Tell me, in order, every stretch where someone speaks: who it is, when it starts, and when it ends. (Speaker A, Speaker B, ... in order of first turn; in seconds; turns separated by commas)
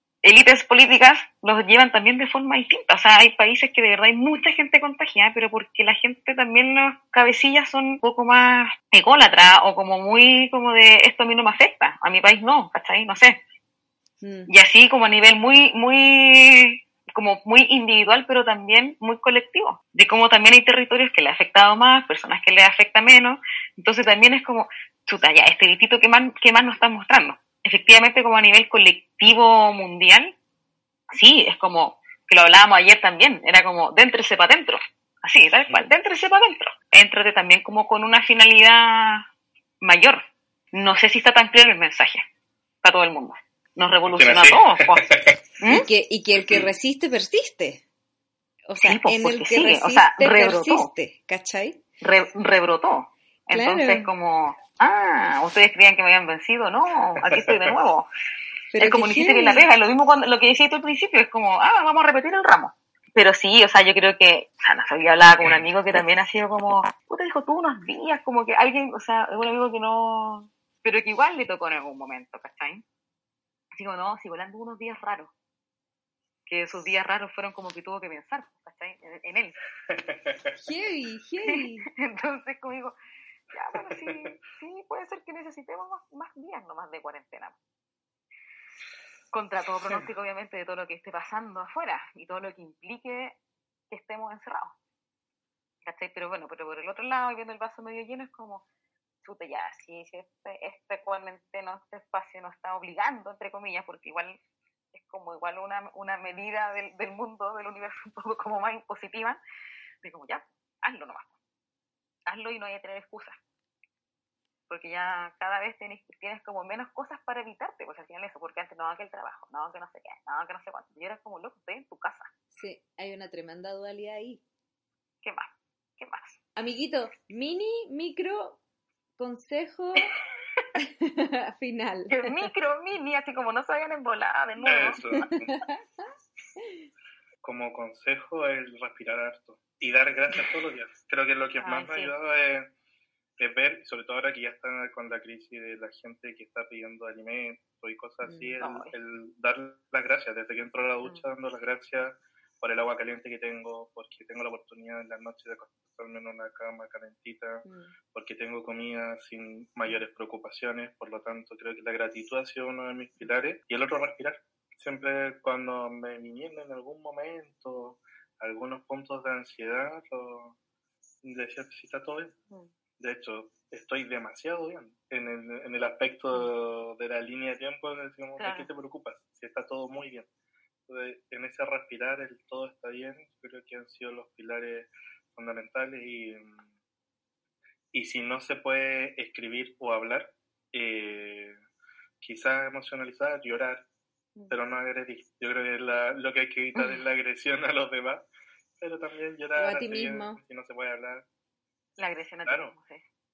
Speaker A: 0.2-13.4, Speaker B: 14.2-14.5, Speaker A: 14.5-30.4, Speaker A: 31.1-39.3, Speaker A: 39.8-42.2, Speaker A: 42.8-45.9, Speaker C: 44.1-45.4, Speaker B: 45.7-47.8, Speaker B: 48.7-51.8, Speaker A: 48.8-50.9, Speaker A: 52.0-58.1, Speaker B: 53.5-54.1, Speaker C: 57.2-57.8, Speaker B: 58.7-59.7, Speaker A: 58.8-72.8, Speaker A: 73.8-75.3, Speaker A: 76.5-79.6, Speaker C: 79.9-80.6, Speaker B: 80.6-81.9, Speaker A: 81.5-83.0, Speaker A: 83.5-87.6, Speaker C: 83.8-84.3, Speaker A: 89.3-93.4, Speaker A: 93.9-94.8, Speaker A: 95.8-98.7, Speaker A: 99.2-104.4, Speaker A: 104.9-109.4, Speaker A: 110.0-111.4, Speaker A: 112.3-113.4, Speaker A: 114.7-122.3, Speaker B: 122.5-124.4, Speaker A: 125.2-126.4, Speaker B: 126.6-128.6, Speaker B: 129.2-130.1, Speaker B: 130.8-132.5, Speaker A: 132.1-135.3, Speaker C: 134.6-135.5, Speaker B: 135.2-135.8, Speaker C: 137.4-142.7, Speaker A: 141.6-142.1, Speaker C: 143.4-170.6, Speaker B: 148.2-148.6, Speaker A: 148.6-148.9, Speaker C: 171.2-172.3, Speaker C: 173.0-180.3, Speaker A: 178.4-178.7, Speaker C: 180.9-186.6, Speaker C: 187.9-191.6, Speaker C: 192.2-193.8, Speaker C: 194.5-198.3, Speaker A: 196.8-197.0, Speaker C: 198.8-201.3, Speaker B: 199.6-200.4, Speaker A: 202.0-203.0, Speaker C: 202.5-202.7